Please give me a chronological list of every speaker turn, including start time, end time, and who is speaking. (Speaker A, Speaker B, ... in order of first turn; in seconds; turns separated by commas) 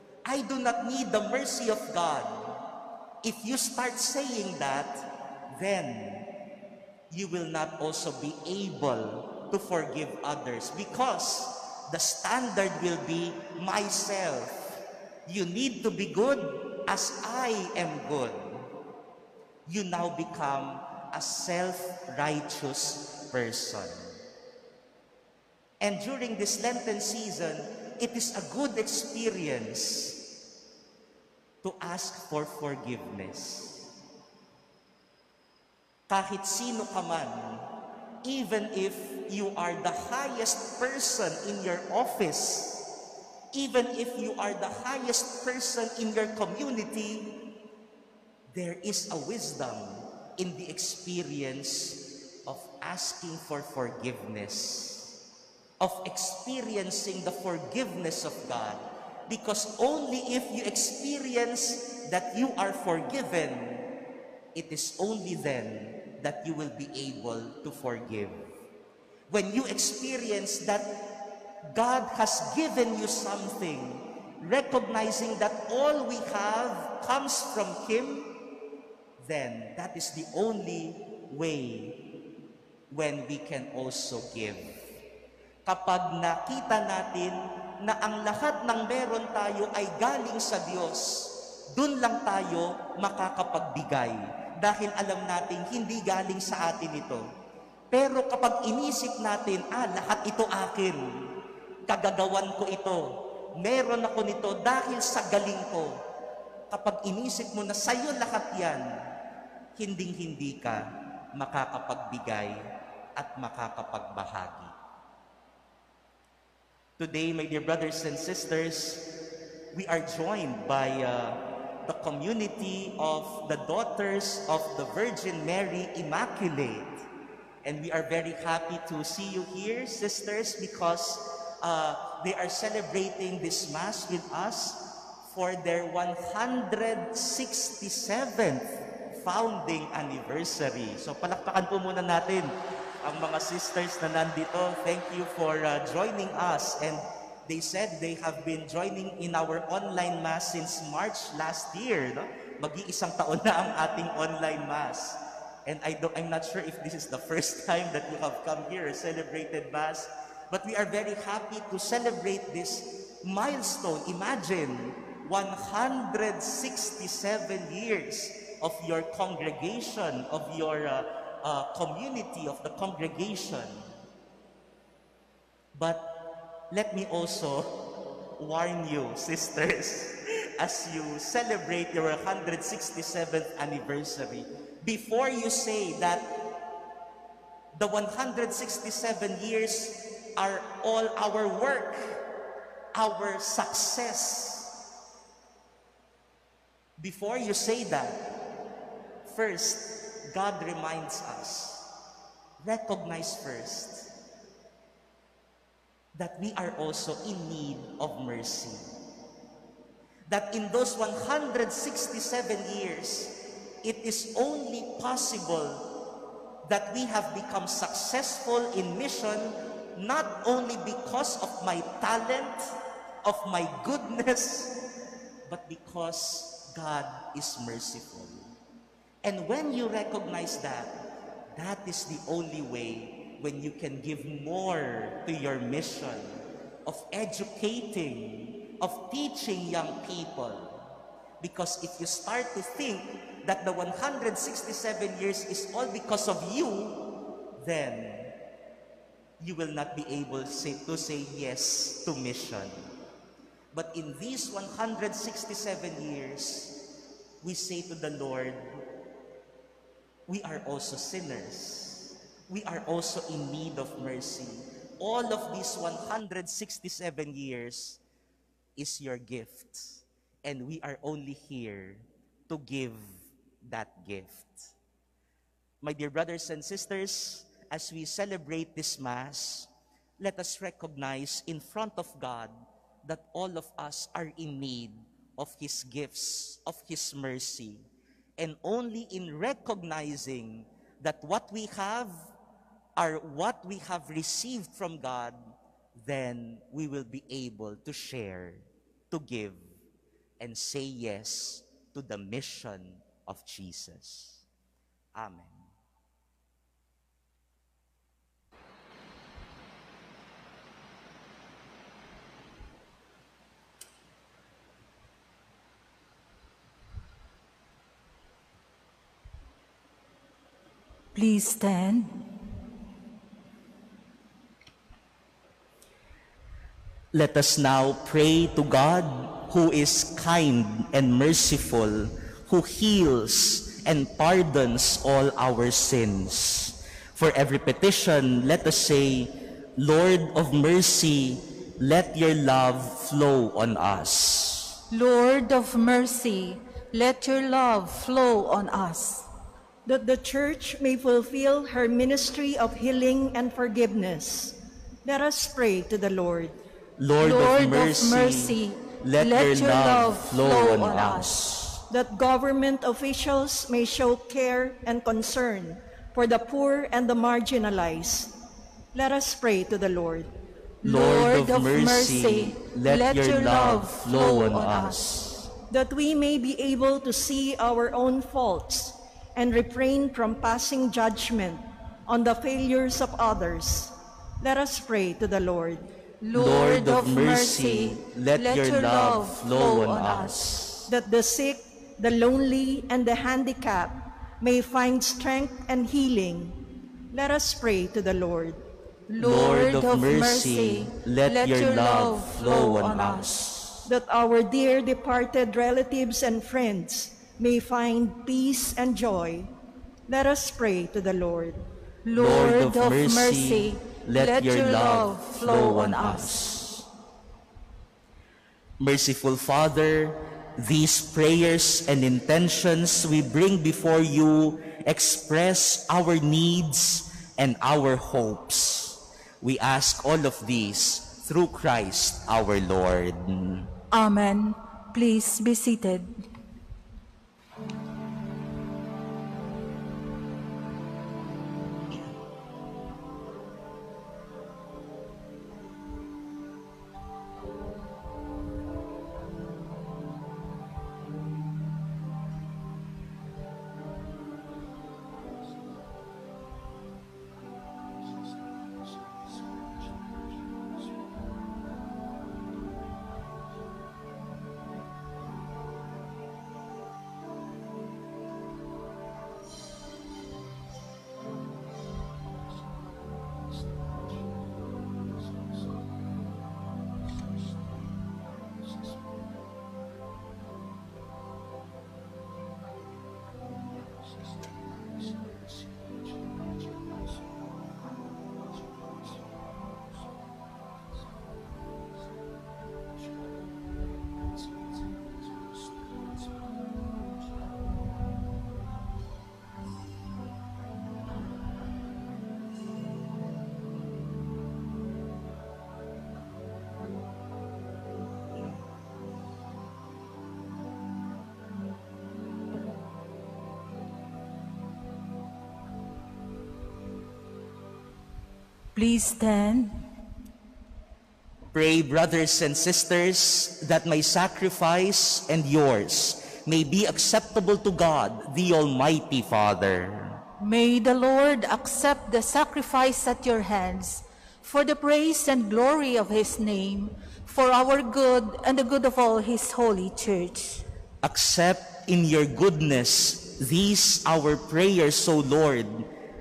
Speaker A: 0.2-2.5, Speaker A: 3.2-6.3, Speaker A: 7.1-18.7, Speaker A: 19.7-24.2, Speaker A: 25.8-30.3, Speaker A: 31.6-33.9, Speaker A: 36.1-37.7, Speaker A: 38.2-42.8, Speaker A: 43.5-47.4, Speaker A: 48.5-55.1, Speaker A: 55.8-63.9, Speaker A: 64.5-68.5, Speaker A: 69.3-70.9, Speaker A: 71.7-78.4, Speaker A: 79.2-82.0, Speaker A: 82.9-84.8, Speaker A: 85.7-97.2, Speaker A: 97.9-101.0, Speaker A: 101.9-103.0, Speaker A: 103.6-106.0, Speaker A: 106.7-108.9, Speaker A: 109.8-110.8, Speaker A: 111.3-112.6, Speaker A: 113.2-114.8, Speaker A: 117.0-119.1, Speaker A: 119.7-127.0, Speaker A: 127.6-173.8, Speaker A: 175.7-186.2, Speaker A: 187.8-192.2, Speaker A: 192.9-194.8, Speaker A: 197.0-198.4, Speaker A: 199.2-201.9, Speaker A: 202.6-204.1, Speaker A: 206.2-208.8, Speaker A: 210.3-215.9, Speaker A: 216.7-224.8, Speaker A: 225.5-228.5, Speaker A: 229.2-231.0, Speaker A: 231.6-240.8, Speaker A: 241.4-247.1, Speaker A: 247.6-248.3, Speaker A: 249.4-252.8, Speaker A: 253.7-256.8, Speaker A: 257.4-258.6, Speaker A: 260.3-268.0, Speaker A: 268.8-274.7, Speaker A: 275.8-287.8, Speaker A: 288.4-292.1, Speaker A: 293.0-295.4, Speaker A: 296.0-299.7, Speaker A: 300.4-304.4, Speaker A: 305.1-305.6, Speaker B: 321.1-322.2, Speaker A: 327.1-344.8, Speaker B: 344.9-349.3, Speaker C: 349.9-356.6, Speaker A: 357.0-361.8, Speaker B: 357.2-361.3, Speaker C: 361.9-368.3, Speaker C: 368.9-370.3, Speaker B: 370.8-375.0, Speaker A: 370.8-375.5, Speaker C: 375.7-385.9, Speaker B: 386.2-390.4, Speaker A: 386.3-390.9, Speaker C: 390.9-396.6, Speaker C: 397.1-398.6, Speaker B: 399.1-403.3, Speaker A: 399.2-403.9, Speaker C: 403.9-409.5, Speaker C: 410.1-411.6, Speaker B: 412.1-416.4, Speaker A: 412.1-416.9, Speaker A: 418.8-433.7, Speaker B: 433.9-436.1, Speaker B: 518.8-519.7, Speaker A: 521.5-530.2, Speaker B: 530.4-540.6, Speaker A: 541.0-545.9